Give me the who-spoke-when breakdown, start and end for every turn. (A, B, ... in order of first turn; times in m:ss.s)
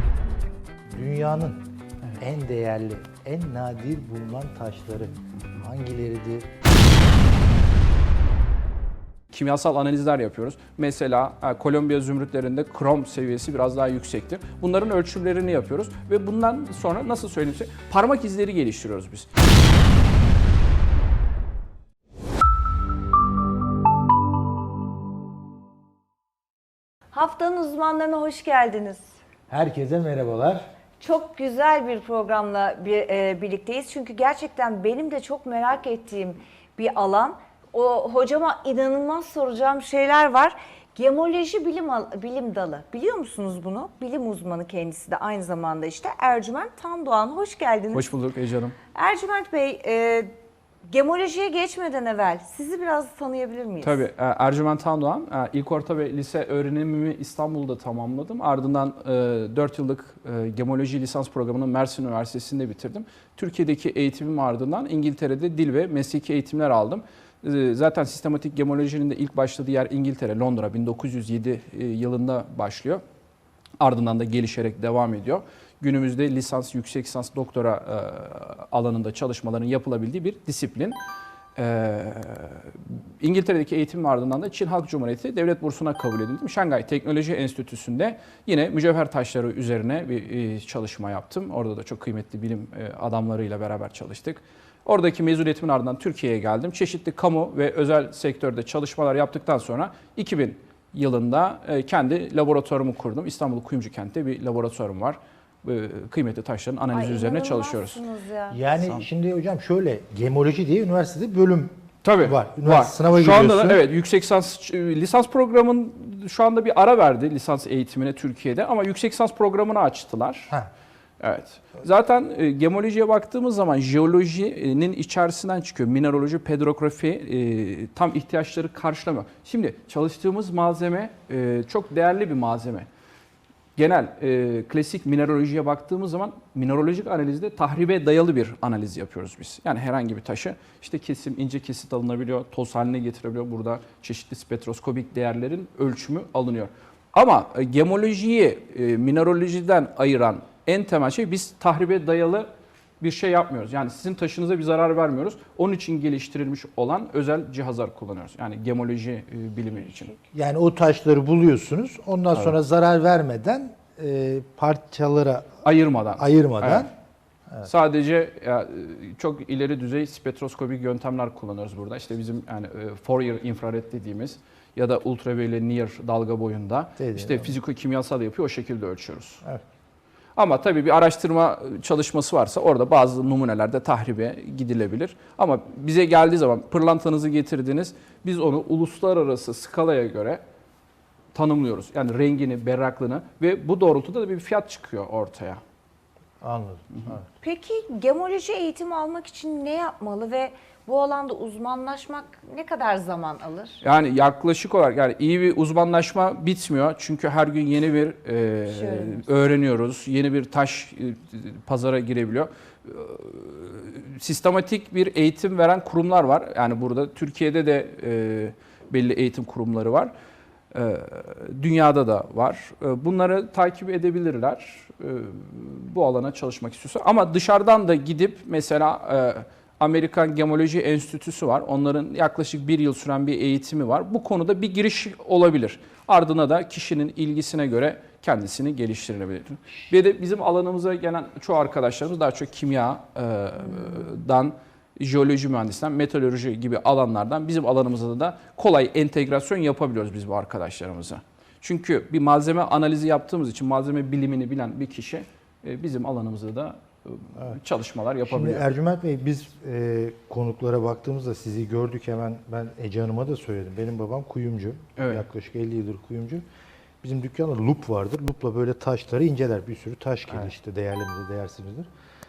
0:00.9-0:01.6 A
0:02.2-0:06.5 A
0:09.3-0:19.3 B
0:27.1-0:29.2 C
0:29.5-0:30.6 A
0:31.0-0:48.1 C
0:47.9-0:48.8 B
0:48.9-0:50.3 C
0:50.9-0:54.1 C
0:53.8-1:13.0 B
1:13.8-1:21.0 B
1:21.6-1:48.0 B
1:46.9-1:48.6 C
1:48.5-1:53.9 A
1:48.8-1:49.0 B
1:52.0-2:00.5 B
2:01.2-2:12.9 B
2:13.8-2:32.5 B
2:33.0-2:40.2 B
2:40.3-2:45.6 A
2:45.6-2:46.9 B
2:46.2-2:46.9 A
2:47.6-2:59.4 B
2:57.0-2:57.6 A
3:00.4-3:10.4 B
3:11.3-3:15.6 B
3:16.4-3:17.3 A
3:17.4-3:23.8 C
3:23.8-3:40.1 B
3:28.7-3:29.3 C
3:40.7-4:18.7 B
4:18.2-4:26.4 A
4:25.0-4:25.3 B
4:27.0-4:31.9 A